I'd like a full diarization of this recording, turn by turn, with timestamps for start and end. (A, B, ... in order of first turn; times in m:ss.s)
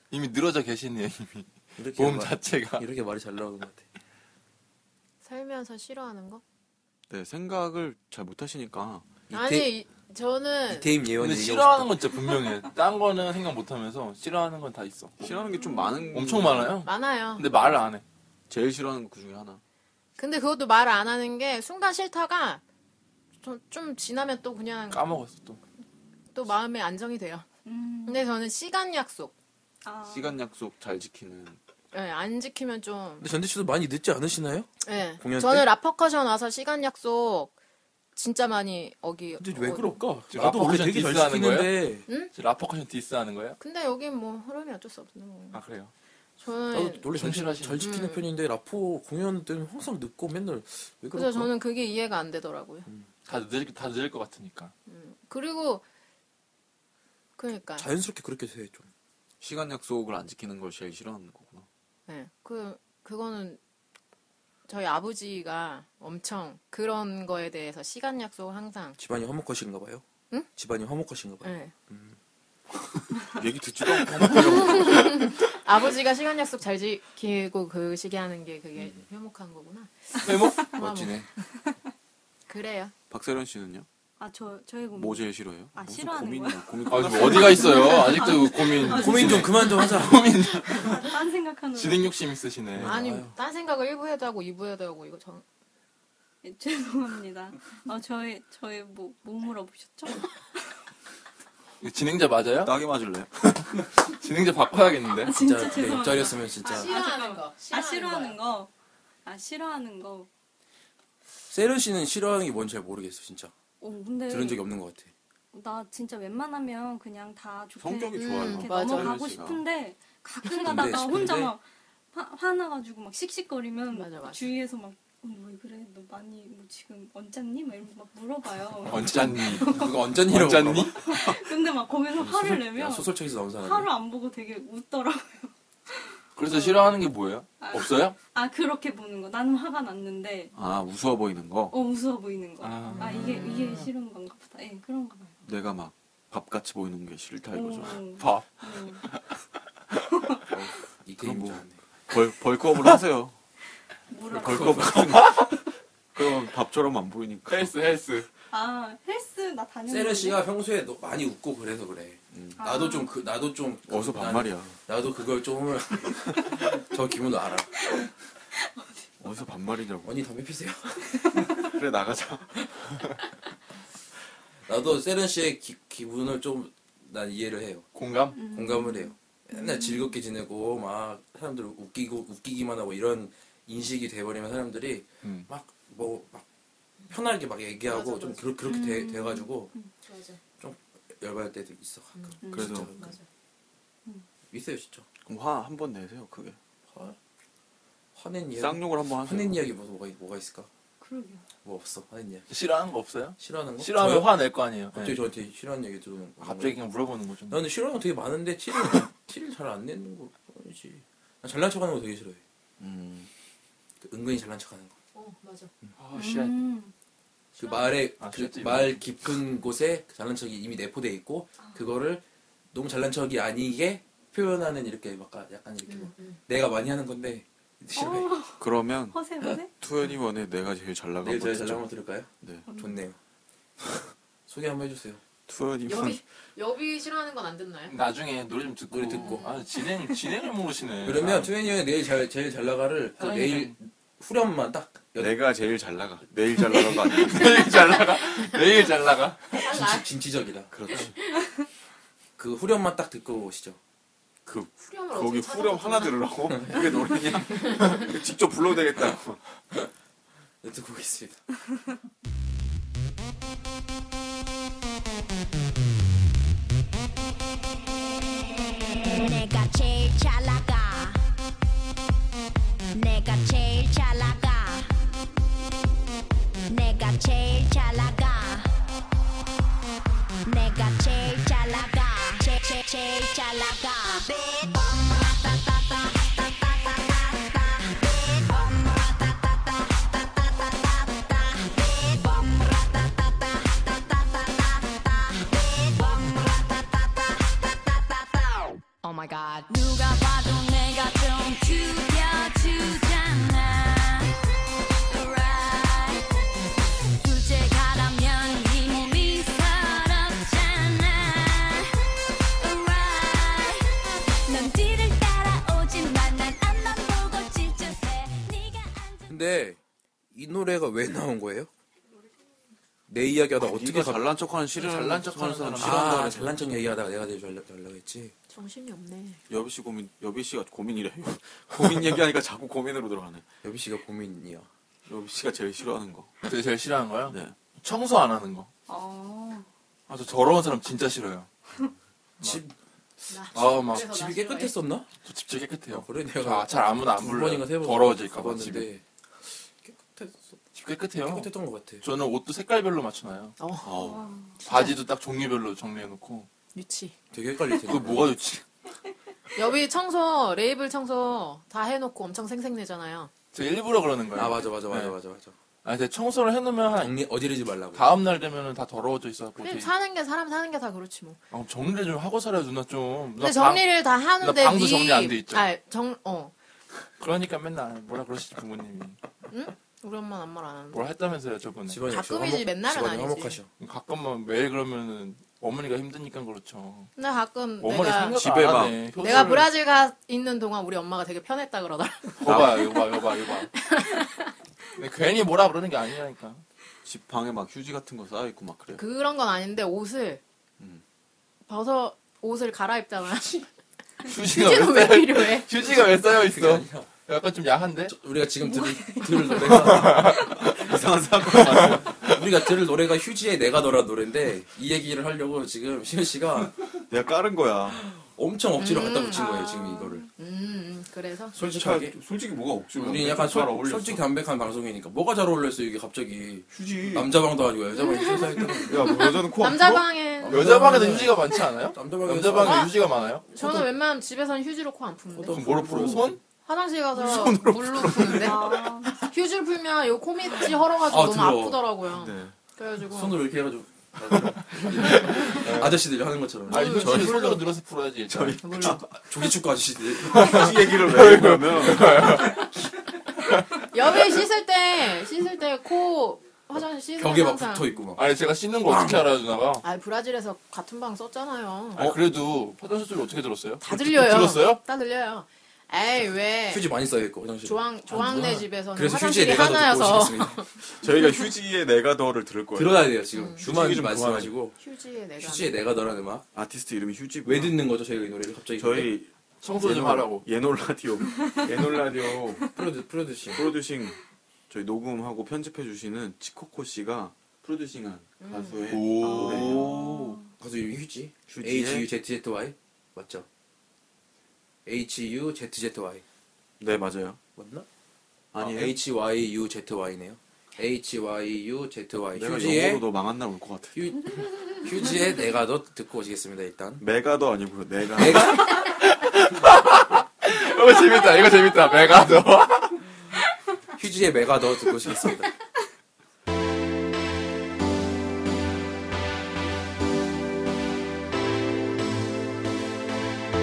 0:00.1-0:02.8 A
0:01.8-0:03.9 B
0:05.2-0:06.4 C
0:07.1-0:09.2 D
0:09.3-0:09.7 B
0:09.3-0:10.9 C
0:10.7-0:12.0 B
0:11.2-0:15.2 A
0:15.2-0:16.8 D
0:15.4-0:16.0 E
0:16.1-0:18.0 A
0:16.8-0:17.4 C
0:18.5-0:19.6 D
0:20.2-0:22.6 C
0:23.4-0:25.1 C
0:24.9-0:25.6 A
0:26.3-0:27.4 C
0:27.6-0:28.2 E
0:28.0-0:29.3 C
0:29.8-0:30.4 E
0:30.0-0:31.6 D
0:31.9-0:33.3 C
0:33.2-0:35.7 B
0:34.8-0:37.5 C
0:38.1-0:40.0 C
0:39.4-0:42.1 B
0:40.3-0:43.6 A
0:43.6-0:45.6 C
0:45.5-0:45.9 A
0:46.4-0:47.1 C
0:46.7-0:51.5 B
0:47.1-0:47.8 A
0:47.8-0:48.2 C
0:51.1-0:52.9 C
0:53.3-0:54.7 A
0:54.9-0:55.8 C
0:57.4-0:57.9 C
0:57.8-0:58.9 B
0:59.4-1:01.6 D
1:02.1-1:03.6 C
1:04.7-1:09.0 C
1:09.0-1:12.2 B
1:11.4-1:11.7 C
1:13.3-1:15.3 D
1:14.3-1:21.2 C
1:20.2-1:21.2 A
1:20.8-1:21.2 B
1:22.5-1:22.9 C
1:23.1-1:23.9 D
1:24.2-1:30.0 E
1:24.9-1:28.0 D
1:26.9-1:31.0 A
1:28.8-1:30.3 B
1:30.6-1:32.2 E
1:31.7-1:33.0 A
1:32.8-1:33.3 B
1:32.8-1:35.4 C
1:36.4-1:40.7 E
1:41.8-1:42.7 A
1:42.6-1:43.3 D
1:43.4-1:45.3 A
1:45.2-1:48.7 E
1:45.3-1:47.0 B
1:46.6-1:48.4 C
1:49.2-1:50.3 E
1:51.5-1:53.5 B
1:53.8-1:54.6 E
1:54.3-1:55.1 B
1:55.5-2:09.9 E
1:57.8-1:59.6 D
1:58.2-1:59.2 C
2:00.6-2:01.5 B
2:03.9-2:04.5 C
2:08.8-2:11.0 A
2:09.4-2:10.9 B
2:11.0-2:16.2 E
2:12.2-2:13.9 B
2:16.4-2:18.2 A
2:17.6-2:20.5 E
2:20.5-2:21.8 D
2:21.7-2:25.3 E
2:22.6-2:23.8 A
2:23.0-2:23.3 C
2:25.4-2:28.2 D
2:27.5-2:29.0 E
2:28.2-2:28.5 A
2:30.5-2:33.4 D
2:31.0-2:31.8 B
2:34.1-2:35.2 E
2:34.3-2:35.5 D
2:34.4-2:35.1 B
2:36.1-2:37.7 D
2:37.5-2:38.3 A
2:38.5-2:40.4 E
2:39.9-2:47.7 B
2:42.6-2:43.1 E
2:43.9-2:44.8 D
2:49.2-2:50.1 D
2:50.0-2:51.5 B
2:51.5-2:52.6 D
2:54.7-2:57.9 B
2:57.9-2:58.4 A
2:58.3-3:00.1 E
2:58.4-3:06.4 B
3:05.2-3:05.5 A
3:07.1-3:09.7 B
3:07.9-3:08.5 C
3:08.6-3:09.9 E
3:10.0-3:10.4 C
3:10.6-3:13.1 B
3:12.2-3:12.4 C
3:12.4-3:12.8 E
3:12.5-3:12.9 D
3:13.0-3:13.2 C
3:14.5-3:15.1 B
3:15.2-3:16.6 D
3:16.9-3:17.2 B
3:18.1-3:20.7 B
3:18.6-3:19.6 D
3:21.0-3:21.4 E
3:21.6-3:22.5 B
3:22.5-3:25.2 A
3:23.4-3:24.3 B
3:24.9-3:26.8 B
3:26.4-3:27.6 A
3:27.5-3:32.4 B
3:32.8-3:33.3 D
3:34.0-3:34.9 B
3:35.1-3:35.7 C
3:36.0-3:36.6 A
3:36.1-3:36.9 E
3:37.6-3:48.3 B
3:38.2-3:39.0 A
3:45.9-3:46.4 C
3:47.9-3:49.7 E
3:48.6-3:49.2 D
3:49.7-3:51.9 D
3:51.2-3:53.2 B
3:52.7-3:53.0 E
3:54.5-3:55.2 B
3:55.5-3:56.2 D
3:55.8-3:58.0 C
3:57.9-4:01.5 A
3:58.9-3:59.5 B
4:01.0-4:05.3 B
4:03.2-4:03.7 A
4:05.2-4:07.7 D
4:06.7-4:09.6 A
4:09.5-4:10.1 C
4:09.6-4:10.7 B
4:10.7-4:11.1 D
4:12.4-4:13.8 B
4:14.4-4:19.4 D
4:14.8-4:16.4 C
4:16.6-4:16.8 B
4:17.5-4:18.1 C
4:20.6-4:21.4 B
4:29.0-4:31.2 F
4:32.9-4:34.9 F
4:36.7-4:38.7 F
4:40.4-4:58.8 F
4:59.6-5:04.3 F
5:05.1-5:06.3 F
5:07.2-5:11.9 F
5:12.6-5:13.8 F
5:14.4-5:19.2 F
5:19.3-5:19.8 B
5:20.3-5:21.7 B
5:23.1-5:24.3 B
5:23.6-5:26.6 D
5:24.7-5:26.3 A
5:25.8-5:28.3 B
5:28.5-5:29.4 C
5:29.5-5:33.4 D
5:33.6-5:34.7 B
5:35.1-5:36.3 D
5:36.4-5:38.7 A
5:37.3-5:37.5 D
5:38.9-5:39.7 E
5:40.1-5:41.5 A
5:42.4-5:42.7 B
5:43.3-5:44.7 C
5:43.5-5:44.2 A
5:43.9-5:45.1 B
5:45.2-5:48.9 A
5:45.9-5:49.0 B
5:49.8-5:50.6 B
5:50.7-5:51.5 A
5:51.2-5:52.0 B
5:52.0-5:53.6 A
5:53.6-5:54.0 C
5:53.8-5:54.2 D
5:54.0-5:54.6 E
5:54.6-5:55.0 C
5:54.6-5:56.5 A
5:56.7-5:57.2 C
5:57.3-5:58.4 B
5:57.8-5:58.6 A
5:59.6-6:03.3 C
6:03.5-6:05.1 A
6:04.3-6:05.5 B
6:05.8-6:07.2 A
6:06.9-6:08.2 B
6:07.9-6:09.9 A
6:09.6-6:11.4 C
6:11.5-6:15.6 A
6:13.4-6:16.5 C
6:17.2-6:19.2 A
6:19.5-6:21.1 C
6:20.9-6:22.0 A
6:21.9-6:23.7 B
6:22.0-6:23.6 C
6:23.8-6:27.1 A
6:27.2-6:28.5 C
6:27.8-6:29.7 A
6:28.3-6:29.5 D
6:29.2-6:33.0 C
6:32.4-6:33.7 A
6:32.4-6:32.9 D
6:33.7-6:34.5 C
6:35.0-6:36.6 A
6:37.0-6:39.0 D
6:39.0-6:40.4 C
6:41.7-6:43.7 C
6:44.2-6:45.7 C
6:44.2-6:48.1 A
6:45.9-6:47.1 B
6:48.0-6:50.6 B
6:48.6-6:49.7 E
6:49.7-6:50.4 A
6:50.3-6:52.2 D
6:51.7-6:56.8 B
6:57.1-6:58.0 D
6:58.1-7:00.2 B
6:58.8-6:59.6 C
6:59.3-7:00.3 E
7:00.4-7:01.6 C
7:01.5-7:02.2 B
7:01.6-7:04.3 D
7:02.9-7:09.2 B
7:06.7-7:07.4 D
7:08.0-7:11.4 C
7:08.8-7:10.1 D
7:10.4-7:12.9 B
7:10.5-7:13.4 A
7:12.6-7:12.9 C
7:13.5-7:23.4 C
7:13.6-7:13.9 B
7:15.3-7:16.4 B
7:15.5-7:16.4 A
7:17.1-7:18.7 D
7:18.3-7:19.1 E
7:21.0-7:22.0 B
7:22.1-7:22.5 D
7:23.1-7:27.6 B
7:25.1-7:26.0 A
7:26.7-7:28.7 A
7:26.7-7:27.6 C
7:28.3-7:29.1 D
7:28.6-7:29.0 C
7:28.8-7:30.9 B
7:30.2-7:32.5 D
7:30.3-7:32.6 A
7:33.9-7:37.9 C
7:37.2-7:38.3 B
7:38.2-7:39.8 A
7:38.8-7:39.2 B
7:39.8-7:42.1 C
7:42.0-7:44.8 A
7:43.8-7:46.9 C
7:46.7-7:50.6 B
7:47.6-7:50.7 C
7:50.9-7:54.6 D
7:52.7-7:54.8 B
7:53.3-7:53.6 C
7:54.8-7:55.8 C
7:55.4-7:56.4 B
7:56.5-7:57.8 D
7:57.4-7:59.1 B
7:58.8-8:02.8 D
7:59.6-8:00.4 A
8:02.7-8:03.7 B
8:03.4-8:04.2 D
8:04.7-8:10.4 D
8:08.4-8:08.9 C
8:08.9-8:09.9 A
8:09.2-8:10.5 E
8:10.6-8:13.5 B
8:11.5-8:12.1 D
8:14.8-8:16.2 B
8:16.8-8:17.4 D
8:17.6-8:17.9 B
8:18.5-8:19.0 D
8:18.5-8:23.1 B
8:22.3-8:24.2 D
8:23.9-8:27.0 B
8:27.0-8:28.6 D
8:28.1-8:28.7 B
8:28.7-8:33.0 A
8:34.0-8:35.5 B